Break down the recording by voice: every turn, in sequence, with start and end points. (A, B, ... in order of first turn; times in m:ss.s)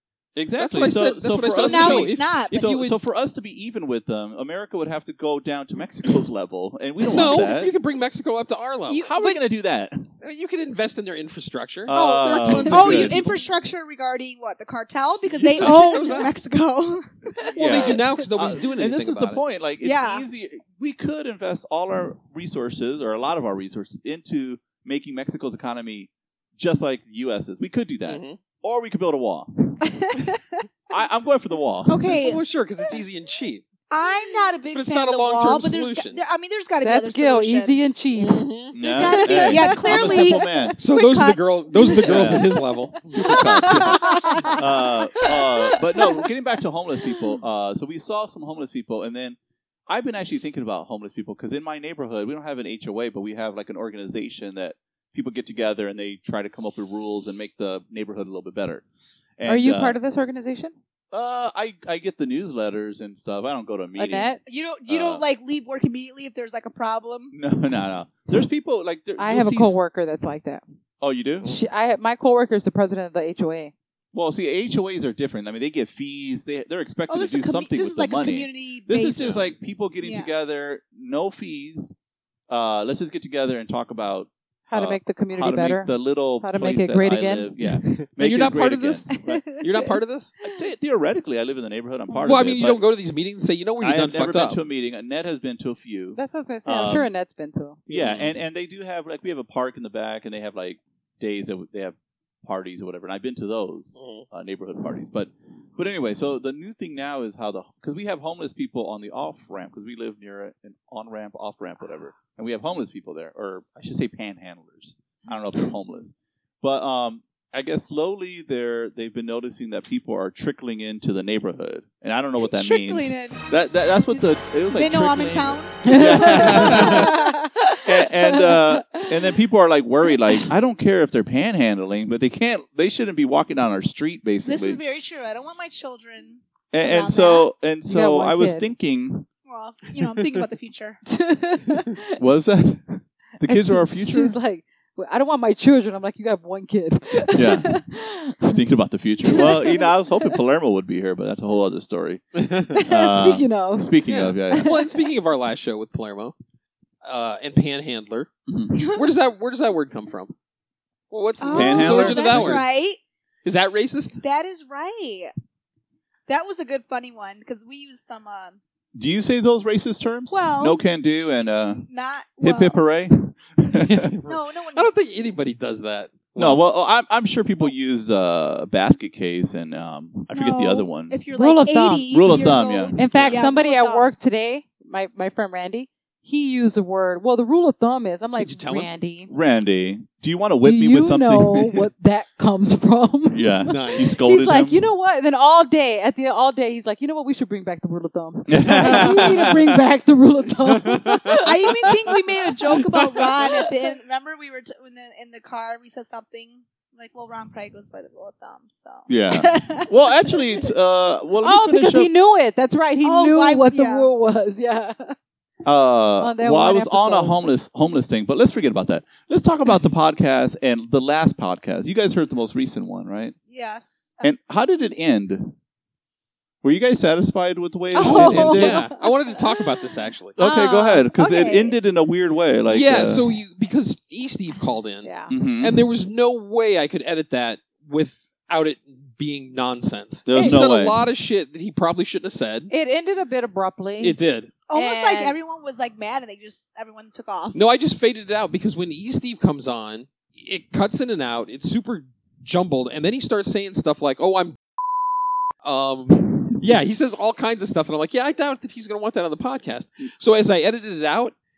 0:00.3-0:07.7 A
0:00.5-0:03.0 B
0:01.5-0:02.8 C
0:07.0-0:09.1 B
0:08.9-0:09.4 C
0:08.9-0:10.1 A
0:10.2-0:13.3 B
0:11.9-0:13.4 A
0:11.9-0:18.0 C
0:15.3-0:16.1 A
0:15.5-0:16.3 B
0:17.4-0:19.4 B
0:17.6-0:29.8 A
0:19.8-0:20.2 C
0:28.0-0:28.4 B
0:30.9-0:32.2 A
0:31.9-0:32.4 C
0:32.1-0:33.6 B
0:33.9-0:38.0 C
0:34.7-0:36.2 B
0:36.8-0:38.4 D
0:38.1-0:38.8 B
0:38.7-0:40.8 A
0:38.8-0:42.5 C
0:39.0-0:39.7 D
0:39.9-0:40.2 B
0:40.8-0:43.1 B
0:42.0-0:42.5 A
0:43.1-0:58.8 A
0:43.2-0:46.2 C
0:43.7-0:44.6 B
0:59.4-1:00.0 A
0:59.4-1:00.7 D
1:01.1-1:04.3 A
1:04.0-1:04.4 D
1:04.4-1:07.3 C
1:04.9-1:05.2 A
1:07.3-1:09.8 A
1:09.2-1:10.6 D
1:11.0-1:11.5 A
1:11.4-1:13.7 D
1:14.1-1:21.9 A
1:17.1-1:19.4 C
1:20.0-1:20.3 C
1:22.5-1:29.6 A
1:24.7-1:27.5 D
1:27.7-1:30.3 B
1:29.1-1:30.4 C
1:30.4-1:32.8 A
1:32.2-1:34.6 B
1:33.8-1:37.1 A
1:36.1-1:37.8 D
1:37.9-1:38.3 B
1:37.9-2:14.8 A
1:44.0-1:44.2 B
2:02.4-2:03.5 C
2:04.1-2:07.4 C
2:05.8-2:07.7 D
2:08.3-2:09.1 D
2:14.4-2:17.5 C
2:16.7-2:19.3 A
2:17.8-2:18.7 D
2:19.4-2:21.0 C
2:21.1-2:22.2 D
2:22.2-2:24.3 A
2:23.4-2:28.5 D
2:27.3-2:27.8 A
2:28.4-2:34.8 A
2:29.2-2:29.8 D
2:32.3-2:32.7 B
2:32.7-2:34.0 D
2:34.1-2:36.3 B
2:34.5-2:34.9 D
2:37.0-2:38.3 B
2:38.5-2:38.9 A
2:38.9-2:40.3 B
2:41.1-2:42.7 B
2:41.4-2:43.0 C
2:41.5-2:42.6 A
2:43.4-2:44.2 B
2:44.2-2:45.3 C
2:46.3-2:48.6 C
2:48.9-2:51.8 A
2:50.3-2:50.8 C
2:51.8-2:52.8 C
2:52.4-2:54.1 A
2:53.8-2:56.6 B
2:54.3-2:54.9 C
2:56.4-3:01.2 A
3:00.3-3:04.1 C
3:01.3-3:02.0 D
3:02.1-3:03.3 A
3:03.0-3:09.3 D
3:03.0-3:03.4 B
3:08.4-3:08.9 B
3:09.3-3:11.9 A
3:10.6-3:22.4 D
3:13.3-3:14.8 A
3:13.7-3:14.1 B
3:18.5-3:19.8 A
3:20.6-3:21.4 B
3:21.4-3:30.6 C
3:29.1-3:32.1 A
3:31.4-3:35.1 D
3:33.0-3:34.1 C
3:35.6-3:43.3 A
3:36.2-3:37.4 D
3:43.5-3:44.3 C
3:44.2-3:45.5 A
3:46.6-3:48.9 A
3:47.9-3:49.6 D
3:48.0-3:50.4 B
3:50.4-3:53.3 A
3:50.4-3:51.1 D
3:51.2-3:51.7 C
3:52.7-3:55.1 B
3:55.0-3:55.3 D
3:55.3-3:55.8 A
3:55.6-4:02.7 B
4:00.2-4:01.0 A
4:02.7-4:04.2 D
4:04.0-4:04.5 B
4:04.7-4:07.6 C
4:04.7-4:05.4 D
4:07.5-4:14.6 B
4:15.6-4:21.3 B